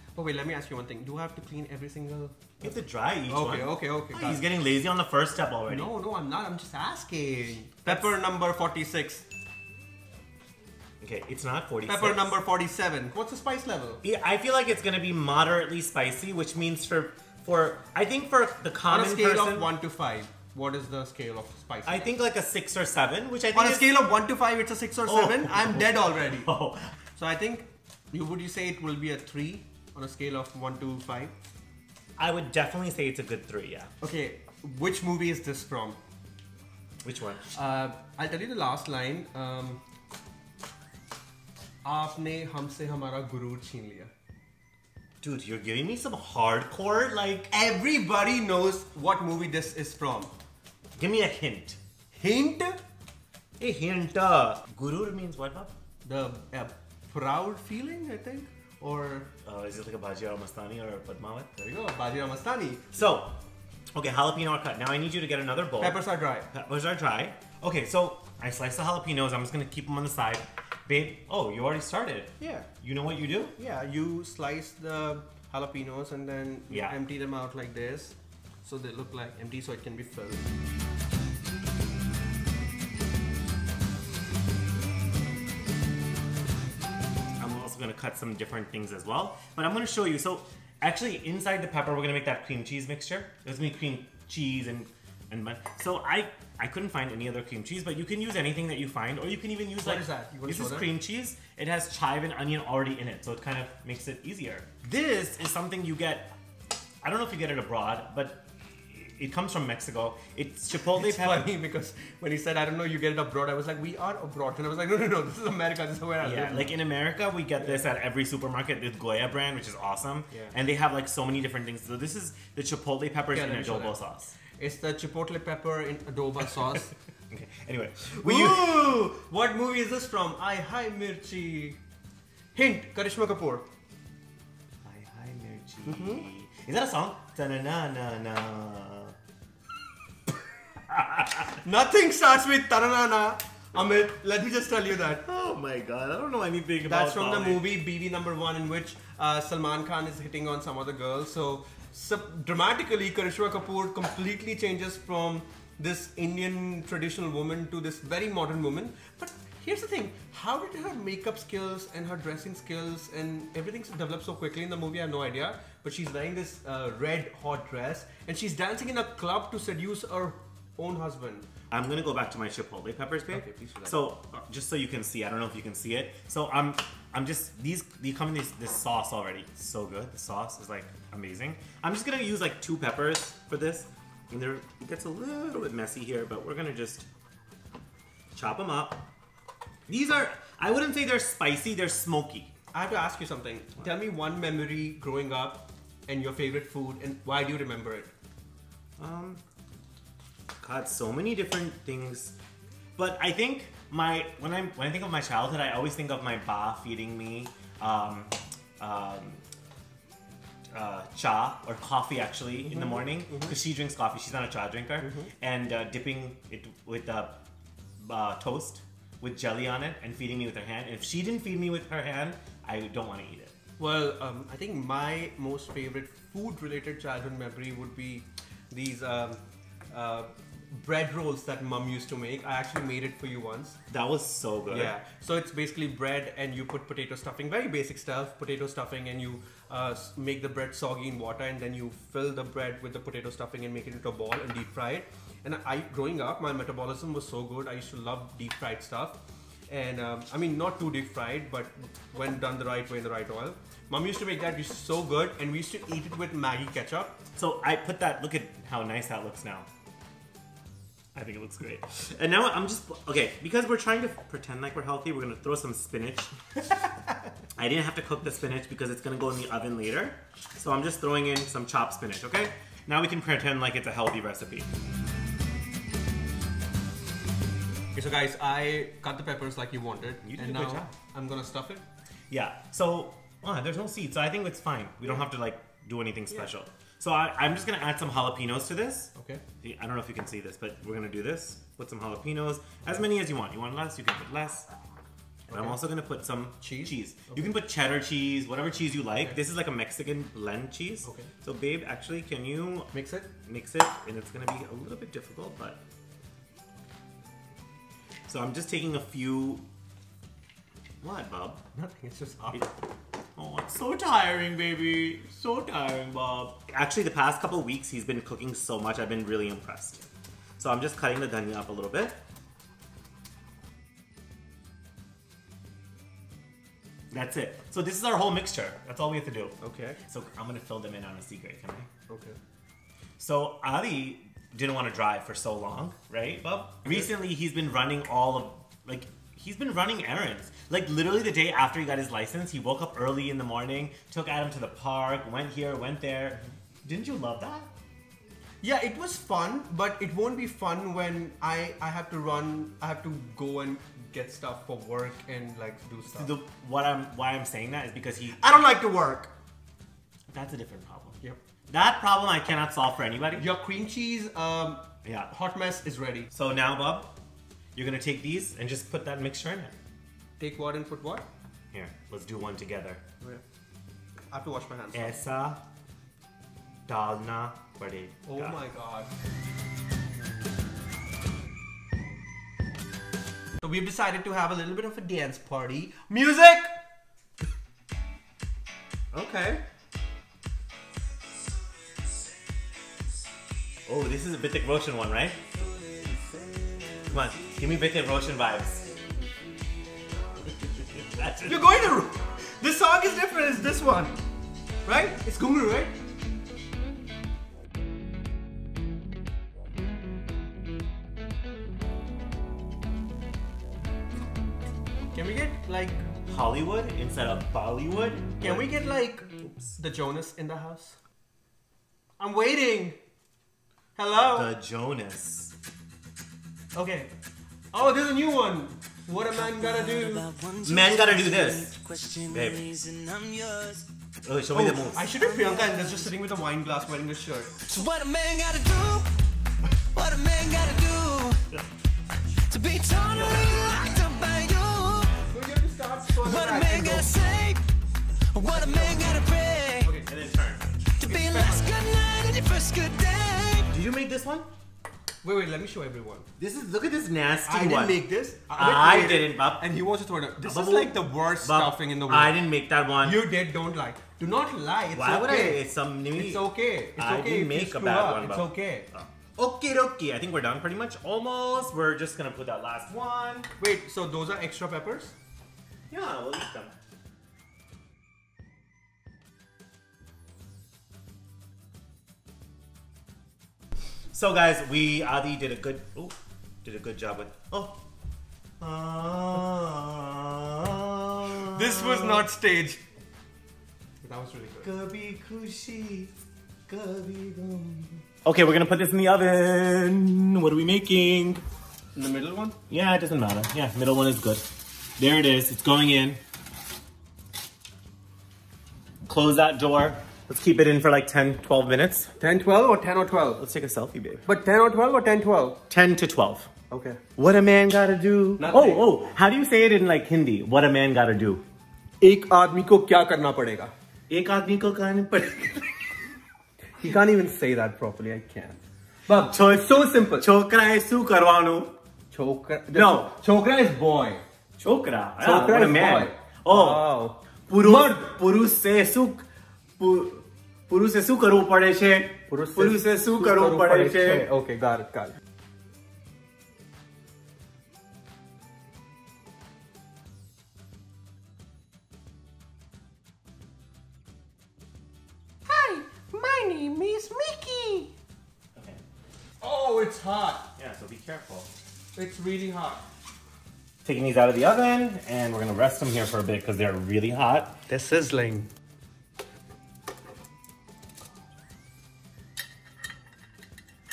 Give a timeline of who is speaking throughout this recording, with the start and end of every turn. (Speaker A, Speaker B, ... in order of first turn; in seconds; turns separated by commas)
Speaker A: 0.1-2.7, Speaker B: 2.6-5.9, Speaker A: 3.3-4.4, Speaker A: 5.7-9.2, Speaker B: 11.0-12.3, Speaker A: 11.9-14.0, Speaker B: 14.0-19.7, Speaker A: 18.9-22.1, Speaker B: 21.9-23.9, Speaker A: 23.5-26.5, Speaker B: 25.1-26.9, Speaker A: 27.2-31.3, Speaker B: 32.2-33.9, Speaker A: 34.0-36.0, Speaker B: 37.0-37.5, Speaker A: 37.5-39.8, Speaker A: 41.8-44.1, Speaker B: 45.2-47.5, Speaker A: 47.5-50.3, Speaker B: 51.0-51.8, Speaker A: 52.1-52.8, Speaker B: 53.6-55.7, Speaker A: 56.0-59.3, Speaker B: 59.4-61.5, Speaker A: 61.6-63.0, Speaker B: 62.9-63.4, Speaker B: 64.0-73.5, Speaker A: 65.8-66.5, Speaker A: 72.4-72.7, Speaker A: 73.6-80.5, Speaker B: 76.7-77.0, Speaker B: 87.4-106.3, Speaker A: 99.8-100.9, Speaker B: 107.0-111.5, Speaker A: 110.8-116.8, Speaker B: 116.2-124.4, Speaker A: 117.6-117.9, Speaker A: 123.3-126.9, Speaker B: 127.3-129.1, Speaker A: 128.2-131.8, Speaker A: 132.5-133.7, Speaker B: 134.8-139.2, Speaker A: 135.8-136.3, Speaker B: 140.9-141.4, Speaker A: 141.6-145.2, Speaker B: 145.2-147.7, Speaker A: 146.8-171.5, Speaker B: 171.7-187.1, Speaker A: 173.3-173.9, Speaker B: 188.3-189.1, Speaker B: 189.9-192.5, Speaker A: 192.7-198.1, Speaker B: 199.0-199.4, Speaker B: 200.6-202.3, Speaker B: 203.0-209.4, Speaker B: 210.7-217.4, Speaker A: 212.6-213.6, Speaker A: 215.0-215.3, Speaker B: 218.0-223.6, Speaker A: 223.8-233.8, Speaker B: 233.9-235.0, Speaker A: 234.7-257.2, Speaker B: 257.4-259.7, Speaker B: 261.1-266.7, Speaker B: 267.6-274.7, Speaker A: 277.9-281.8, Speaker B: 280.2-280.9, Speaker B: 282.3-294.7, Speaker A: 289.1-289.4, Speaker A: 295.5-295.8, Speaker B: 295.5-302.9, Speaker A: 296.6-297.5, Speaker A: 301.0-301.3, Speaker A: 302.9-303.3, Speaker B: 303.4-305.8, Speaker B: 308.3-309.6, Speaker B: 311.0-311.6, Speaker A: 311.7-312.7, Speaker B: 313.4-320.1, Speaker B: 320.6-322.2, Speaker B: 327.1-329.6, Speaker A: 329.6-330.0, Speaker B: 330.1-331.9, Speaker A: 332.1-332.4, Speaker B: 333.2-347.7, Speaker A: 336.9-337.1, Speaker A: 348.6-356.3, Speaker B: 356.1-358.5, Speaker A: 358.4-359.3, Speaker B: 360.3-363.4, Speaker A: 363.4-366.3, Speaker B: 365.0-365.3, Speaker B: 366.3-367.1, Speaker B: 367.8-369.7, Speaker A: 370.4-371.3, Speaker B: 371.7-373.0, Speaker A: 374.3-375.2, Speaker B: 374.9-375.6, Speaker B: 376.9-378.6, Speaker A: 378.3-379.1, Speaker A: 383.6-386.8, Speaker A: 389.2-389.6, Speaker B: 393.9-395.4, Speaker B: 397.1-398.9, Speaker B: 400.8-401.7, Speaker A: 401.4-404.2, Speaker A: 404.8-406.0, Speaker A: 415.1-416.0, Speaker B: 416.3-418.7, Speaker A: 418.4-421.0, Speaker A: 422.2-423.0, Speaker A: 424.0-424.5, Speaker B: 424.1-425.6, Speaker A: 426.8-427.1, Speaker A: 427.7-430.3, Speaker C: 429.3-433.9, Speaker B: 430.6-431.7, Speaker B: 432.3-432.6, Speaker B: 434.2-435.1, Speaker A: 434.5-437.5, Speaker C: 435.2-435.9, Speaker C: 437.6-439.1, Speaker C: 439.9-441.6, Speaker C: 442.4-445.2, Speaker A: 445.2-447.2, Speaker C: 446.2-447.6, Speaker C: 448.3-449.9, Speaker A: 448.5-449.3, Speaker A: 449.8-450.1, Speaker B: 450.0-450.9, Speaker C: 451.0-453.7, Speaker A: 451.0-451.7, Speaker B: 453.7-454.5, Speaker A: 455.2-456.3, Speaker B: 456.4-459.6, Speaker A: 457.5-462.4, Speaker B: 460.4-463.2, Speaker A: 463.0-465.6, Speaker B: 464.9-473.5, Speaker A: 466.1-468.9, Speaker A: 473.6-475.1, Speaker B: 475.9-476.8, Speaker B: 484.1-487.8, Speaker B: 488.6-492.3, Speaker A: 491.4-492.8, Speaker A: 494.0-494.7, Speaker B: 494.6-496.1, Speaker B: 496.7-501.4, Speaker A: 501.9-502.6, Speaker B: 502.7-506.2, Speaker B: 509.1-512.1, Speaker A: 512.2-513.4, Speaker B: 513.4-514.2, Speaker A: 514.2-515.6, Speaker B: 515.7-516.5, Speaker A: 516.7-517.0, Speaker B: 517.2-521.4, Speaker A: 518.4-518.9, Speaker A: 522.0-523.7, Speaker B: 524.1-525.8, Speaker A: 526.8-530.3, Speaker B: 529.2-531.7, Speaker A: 532.1-534.2, Speaker B: 532.7-533.2, Speaker B: 534.6-536.8, Speaker A: 535.2-538.1, Speaker B: 537.5-539.3, Speaker B: 539.8-544.3, Speaker A: 542.3-545.1, Speaker A: 555.5-557.9, Speaker B: 558.6-558.8, Speaker A: 559.4-560.5, Speaker B: 560.6-561.5, Speaker A: 562.0-562.9, Speaker B: 563.8-567.6, Speaker A: 567.7-568.5